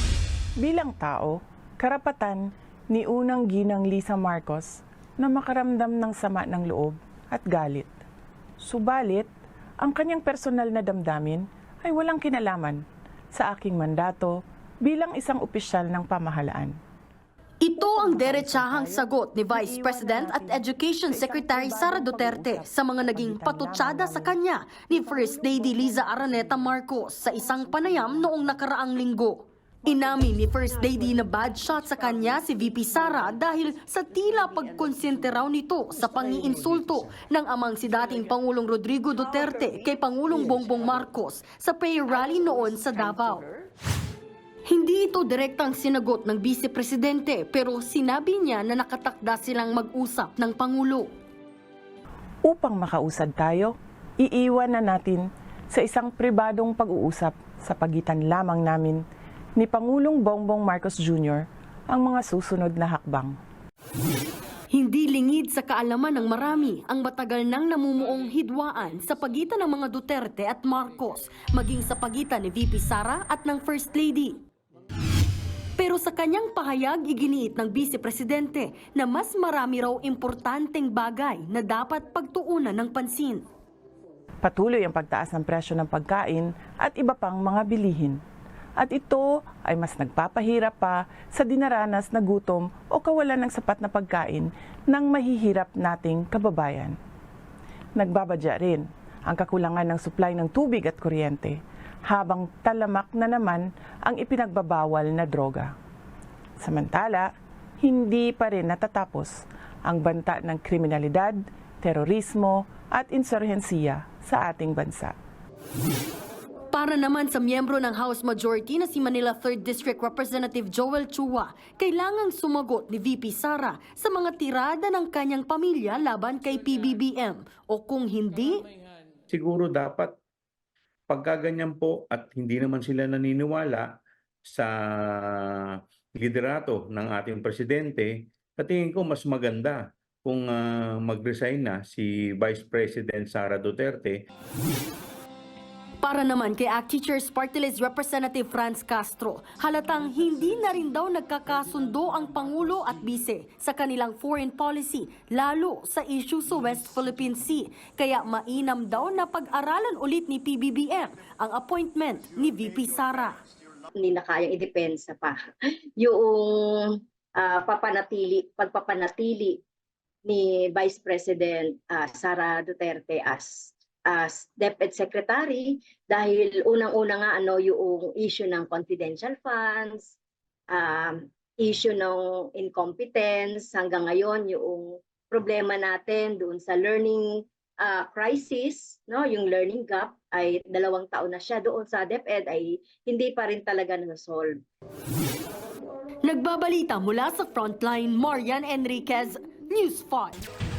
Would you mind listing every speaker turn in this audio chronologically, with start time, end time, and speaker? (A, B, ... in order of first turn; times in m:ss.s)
0:00.6-0:07.9 A
0:08.6-0:09.3 A
0:09.8-0:12.8 A
0:13.3-0:16.8 A
0:17.6-0:43.5 B
0:17.8-0:24.4 A
0:25.4-0:25.7 A
0:44.7-0:51.1 B
0:52.4-0:59.0 A
0:59.6-1:03.4 A
1:04.7-1:14.4 B
1:15.8-1:23.5 B
1:24.4-1:28.2 A
1:28.8-1:37.0 A
1:38.0-1:45.7 A
1:46.6-1:47.3 A
1:47.8-1:55.2 A
1:56.7-2:08.7 B
2:09.3-2:10.1 C
2:11.1-2:13.9 C
2:14.5-2:15.6 C
2:16.2-2:24.2 C
2:26.0-2:43.4 B
2:44.0-2:45.4 D
2:46.0-2:49.6 D
2:50.3-3:00.2 D
3:00.7-3:14.6 D
3:16.2-3:20.4 B